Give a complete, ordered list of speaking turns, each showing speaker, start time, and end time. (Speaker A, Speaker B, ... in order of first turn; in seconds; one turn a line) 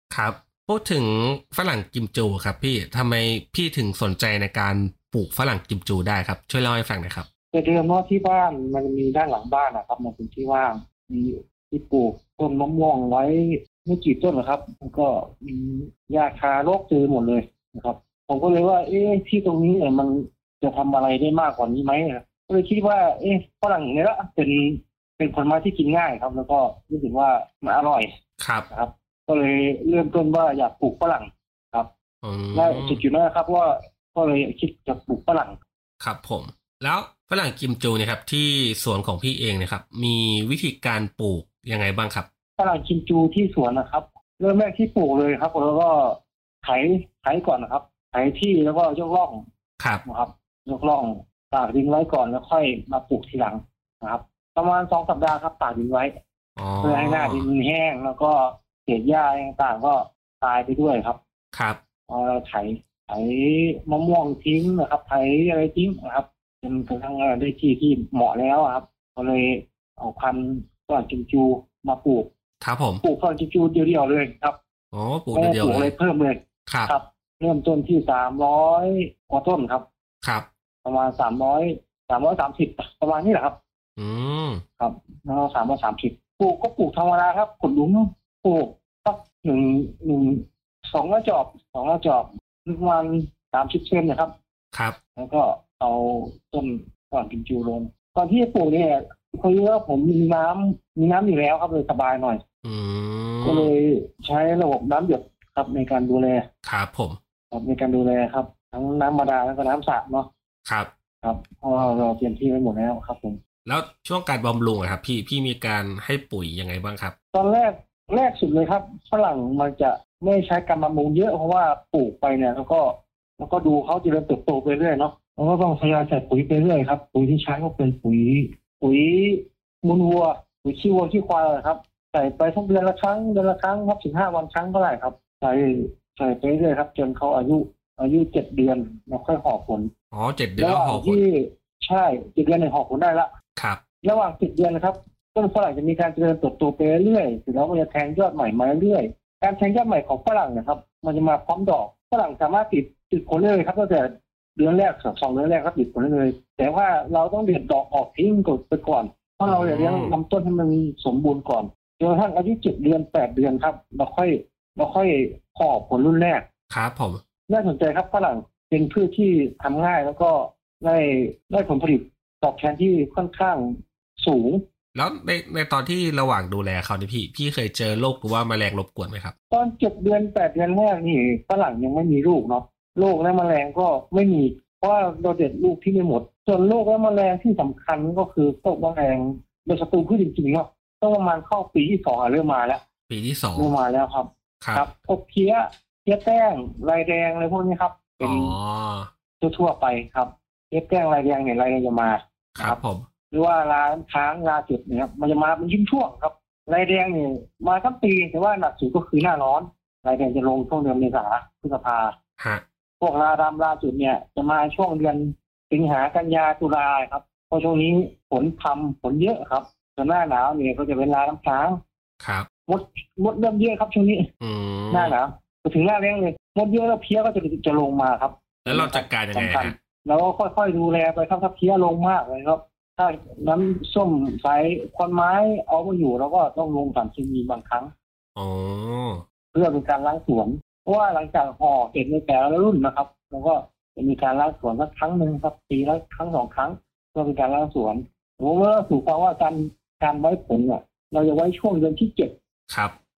Speaker A: 0.1-7.3
Speaker B: 7.5-28.1
Speaker A: 28.4-28.7
Speaker B: 28.7-31.9
Speaker A: 32.2-33.0
Speaker B: 32.5-35.6
Speaker A: 36.0-42.3
Speaker B: 42.6-49.4
Speaker B: 50.0-56.1
Speaker A: 56.6-57.5
Speaker B: 56.8-61.2
Speaker A: 61.5-61.8
Speaker B: 62.1-72.3
Speaker A: 72.6-73.0
Speaker B: 73.0-74.6
Speaker A: 74.9-75.9
Speaker B: 75.3-79.8
Speaker A: 76.7-76.9
Speaker A: 80.2-80.5
Speaker B: 80.8-83.6
Speaker A: 84.0-84.6
Speaker B: 84.8-94.3
Speaker B: 95.2-102.4
Speaker A: 102.6-103.7
Speaker B: 103.4-106.5
Speaker A: 106.6-107.2
Speaker B: 107.5-110.3
Speaker A: 110.7-110.9
Speaker B: 111.2-113.4
Speaker A: 113.7-117.1
Speaker B: 117.3-139.9
Speaker A: 140.1-141.2
Speaker B: 140.6-143.3
Speaker B: 144.0-166.4
Speaker A: 159.4-160.2
Speaker A: 166.7-167.2
Speaker B: 167.5-174.6
Speaker A: 174.9-179.3
Speaker B: 179.5-192.8
Speaker A: 193.1-193.7
Speaker B: 193.6-198.6
Speaker A: 194.6-194.9
Speaker A: 198.2-199.1
Speaker B: 199.4-202.8
Speaker A: 202.6-203.1
Speaker B: 203.3-212.1
Speaker B: 213.0-221.8
Speaker A: 222.2-222.5
Speaker B: 222.7-224.3
Speaker A: 224.4-225.2
Speaker B: 224.9-237.9
Speaker A: 228.7-229.8
Speaker A: 238.4-239.2
Speaker B: 239.5-252.3
Speaker A: 252.7-252.9